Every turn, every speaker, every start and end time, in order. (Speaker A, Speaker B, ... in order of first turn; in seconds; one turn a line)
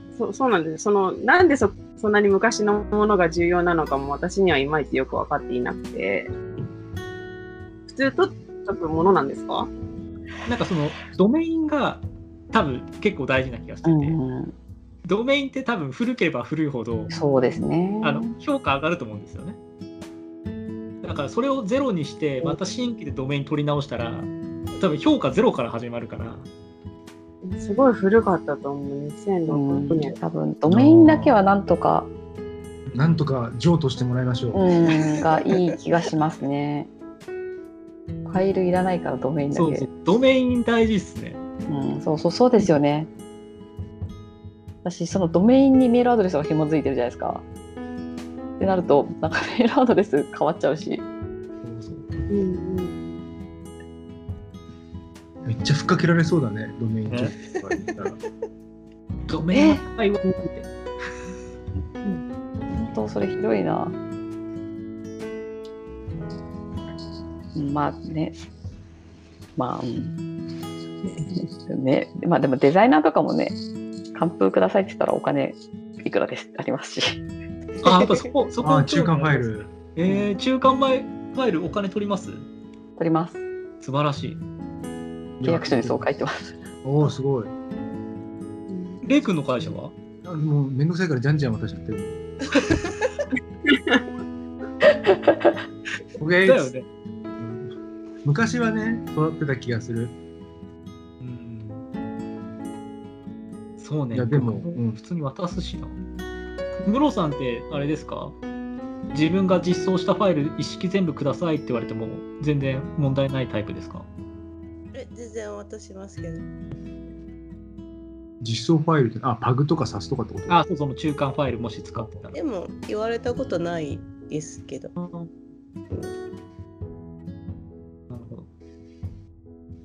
Speaker A: 0.1-6.3
Speaker A: 7.9-9.7
Speaker B: 10.4-14.2
Speaker C: 13.8-14.5
Speaker B: 15.0-17.1
Speaker C: 17.1-18.3
Speaker B: 18.0-19.6
Speaker B: 21.0-26.5
Speaker A: 27.4-30.1
Speaker C: 29.5-32.1
Speaker D: 30.7-31.4
Speaker D: 32.9-34.7
Speaker C: 34.5-36.9
Speaker C: 38.2-39.9
Speaker B: 39.5-41.4
Speaker C: 41.7-43.1
Speaker C: 44.8-47.4
Speaker C: 48.6-51.0
Speaker B: 51.6-52.3
Speaker A: 52.3-53.1
Speaker D: 55.4-58.2
Speaker B: 57.1-57.3
Speaker B: 59.3-60.6
Speaker C: 59.5-59.8
Speaker C: 62.7-64.0
Speaker C: 67.5-68.3
Speaker C: 69.6-70.1
Speaker C: 71.3-73.5
Speaker C: 74.1-77.2
Speaker B: 77.8-82.5
Speaker D: 78.6-79.7
Speaker C: 83.0-83.4
Speaker B: 83.8-84.4
Speaker D: 85.4-86.1
Speaker C: 85.4-86.5
Speaker D: 86.8-87.5
Speaker A: 88.7-89.0
Speaker B: 89.0-89.9
Speaker D: 90.2-92.2
Speaker A: 93.7-94.0
Speaker C: 95.0-95.5
Speaker D: 96.2-96.7
Speaker B: 96.4-96.8
Speaker D: 97.4-97.7
Speaker D: 98.2-100.1
Speaker B: 101.2-101.8
Speaker B: 103.8-106.0
Speaker D: 104.1-105.0
Speaker B: 106.8-108.3
Speaker B: 109.1-114.1
Speaker E: 114.9-116.5
Speaker D: 118.4-120.6
Speaker B: 120.5-122.3
Speaker E: 122.3-124.9
Speaker B: 125.0-125.3
Speaker B: 128.1-128.5